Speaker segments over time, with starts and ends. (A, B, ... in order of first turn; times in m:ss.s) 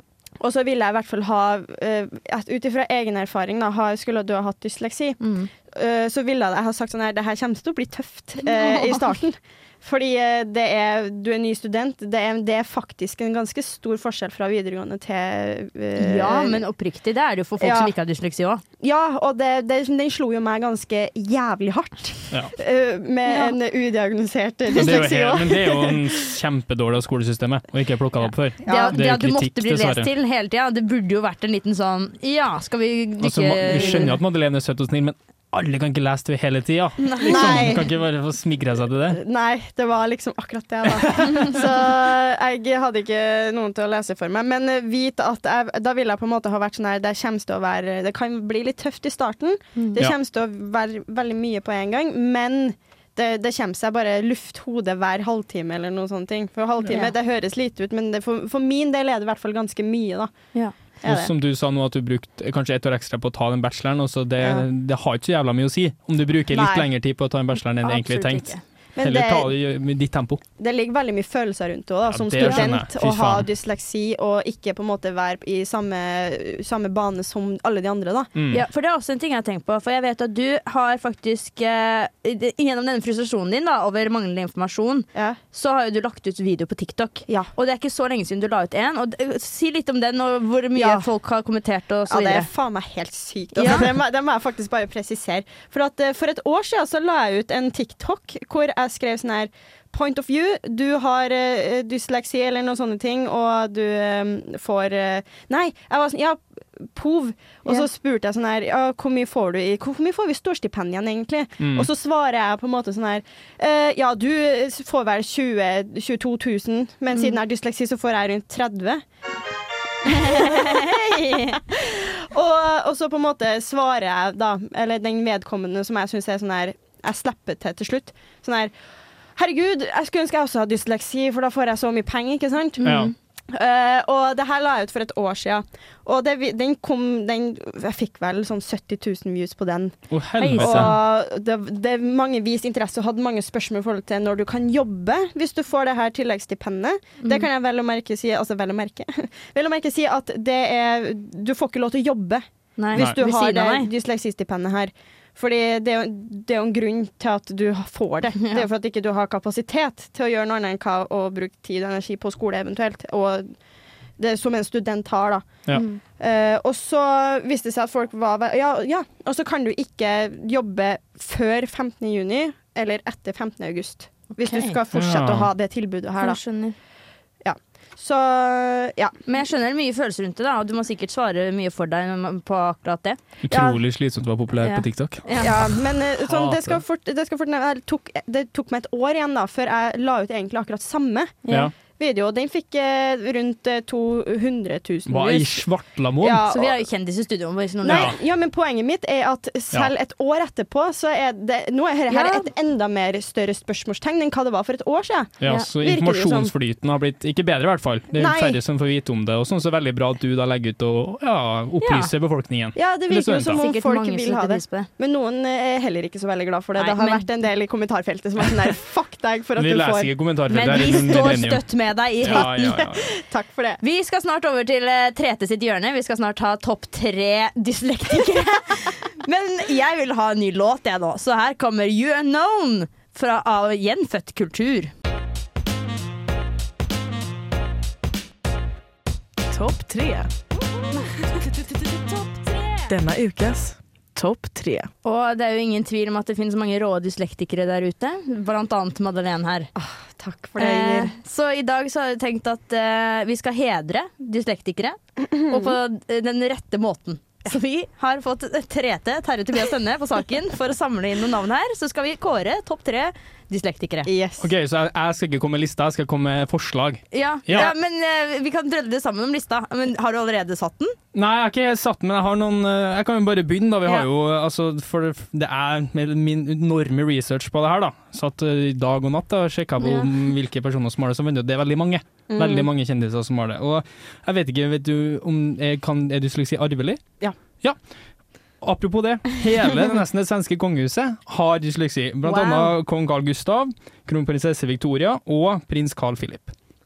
0:00.4-0:16.6 A
0:05.2-0:05.5 B
0:08.4-0:09.0 B
0:16.0-0:18.6 B
0:17.6-0:17.9 A
0:18.8-0:26.0 A
0:23.3-0:23.6 B
0:24.8-0:30.1 C
0:28.6-0:29.0 A
0:28.6-0:34.2 B
0:33.2-0:39.2 C
0:37.0-0:37.8 B
0:37.2-0:37.9 A
0:39.1-1:00.3 A
0:56.8-0:57.1 B
1:01.0-1:01.3 A
1:01.0-1:10.4 C
1:06.5-1:06.8 A
1:07.8-1:08.6 B
1:09.0-1:09.5 A
1:10.6-1:18.3 A
1:12.1-1:13.5 C
1:12.4-1:12.7 B
1:18.3-1:18.6 C
1:18.5-1:32.5 B
1:30.8-1:31.0 A
1:32.1-1:59.0 A
1:33.6-1:33.9 B
1:51.6-1:51.9 C
2:00.0-2:08.7 A
2:00.1-2:01.5 B
2:09.4-2:13.0 A
2:12.8-2:13.1 B
2:12.8-2:13.1 C
2:13.5-2:20.0 A
2:20.1-2:20.9 C
2:20.4-2:21.0 B
2:20.6-2:43.5 A
2:32.8-2:33.9 B
2:44.2-2:45.5 A
2:45.7-2:46.0 B
2:46.2-2:56.4 A
2:54.4-2:54.8 B
2:54.9-2:55.5 C
2:56.2-2:56.8 B
2:57.4-2:59.1 A
2:59.2-3:03.2 B
3:03.4-3:06.8 C
3:03.5-3:03.8 A
3:04.6-3:05.6 B
3:05.4-3:11.4 A
3:11.4-3:11.7 B
3:11.9-3:15.6 A
3:15.1-3:16.4 C
3:16.2-3:16.7 A
3:16.5-3:18.1 B
3:17.8-3:26.5 A
3:17.8-3:18.2 C
3:22.1-3:22.5 B
3:25.4-3:33.6 C
3:28.1-3:28.6 A
3:31.8-3:32.1 B
3:32.8-3:40.1 A
3:33.5-3:34.9 B
3:36.8-3:37.3 B
3:39.6-3:41.6 C
3:40.5-3:42.8 B
3:42.2-3:43.1 C
3:42.3-3:43.8 A
3:43.8-3:54.9 B
3:59.5-4:00.3 D
4:01.7-4:02.9 B
4:02.9-4:04.9 D
4:05.0-4:09.7 B
4:09.7-4:11.1 A
4:10.6-4:24.1 B
4:15.4-4:15.7 A
4:24.0-4:24.5 A
4:24.4-4:27.7 C
4:27.1-4:31.0 B
4:31.1-4:47.0 C
4:39.8-4:40.1 B
4:42.3-4:42.6 A
4:48.6-4:56.5 C
4:52.3-4:52.7 B